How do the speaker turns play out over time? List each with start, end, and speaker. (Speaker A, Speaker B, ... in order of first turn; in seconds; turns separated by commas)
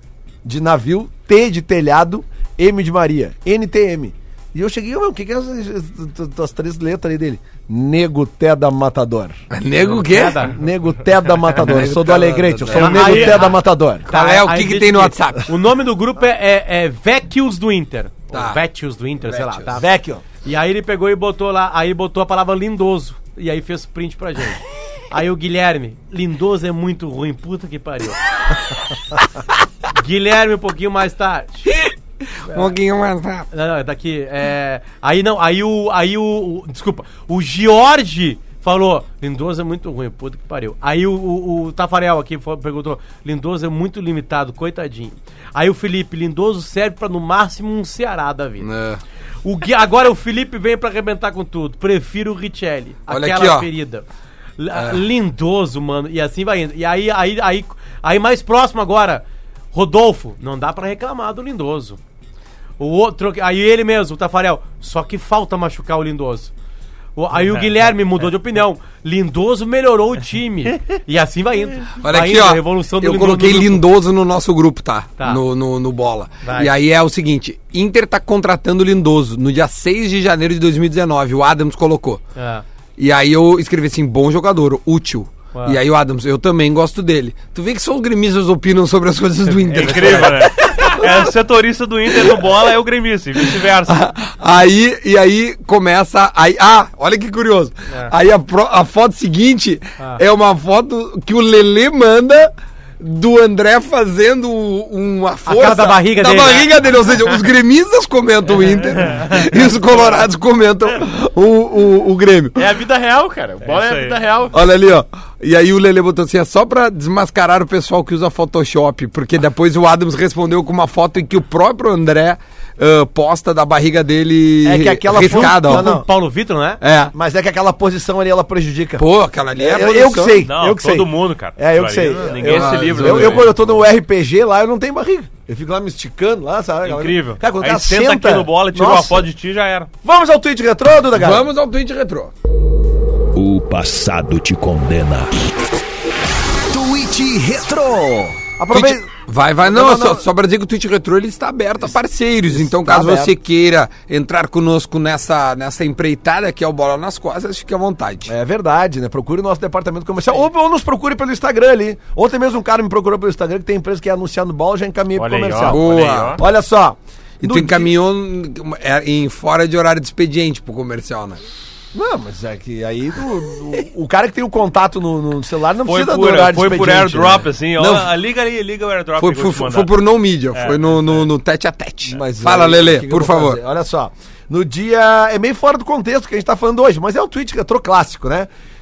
Speaker A: 0.4-9.4, Speaker B: 9.5-10.5, Speaker C: 9.9-10.5, Speaker A: 10.4-14.1, Speaker B: 11.5-13.5, Speaker C: 12.7-28.2, Speaker B: 14.1-15.5, Speaker B: 18.3-18.6, Speaker B: 19.2-19.8, Speaker A: 19.8-20.2, Speaker C: 29.9-31.7, Speaker B: 31.7-33.5, Speaker C: 33.5-48.7, Speaker B: 48.6-49.0, Speaker C: 49.4-54.0, Speaker B: 53.1-53.7, Speaker C: 54.6-62.0, Speaker B: 54.7-55.0, Speaker C: 62.8-66.5, Speaker C: 67.2-73.8, Speaker D: 67.4-67.9, Speaker B: 72.0-82.2, Speaker C: 75.2-75.4, Speaker C: 76.4-76.7, Speaker C: 82.3-82.6, Speaker B: 83.0-91.3, Speaker C: 85.5-85.8, Speaker D: 89.6-94.0, Speaker B: 92.1-92.7, Speaker B: 93.3-112.6, Speaker C: 105.4-106.7, Speaker E: 112.5-114.5, Speaker D: 113.6-114.2, Speaker B: 114.5-126.0, Speaker A: 124.6-126.0, Speaker C: 125.1-126.8, Speaker B: 126.8-127.1, Speaker A: 127.1-129.0, Speaker B: 129.0-130.4, Speaker A: 129.6-139.2, Speaker D: 130.4-133.6, Speaker B: 132.5-133.5, Speaker D: 136.8-139.9, Speaker A: 140.0-141.5, Speaker B: 141.1-142.3, Speaker F: 143.3-145.3, Speaker A: 146.7-149.1, Speaker B: 148.7-158.3, Speaker A: 149.6-150.2, Speaker A: 152.5-153.3, Speaker A: 158.3-167.9, Speaker E: 165.1-166.4, Speaker B: 165.6-166.4, Speaker B: 167.4-171.4, Speaker A: 171.9-177.5, Speaker D: 175.8-179.9, Speaker B: 177.8-178.1, Speaker B: 179.2-183.6, Speaker D: 180.5-181.3, Speaker A: 182.1-188.5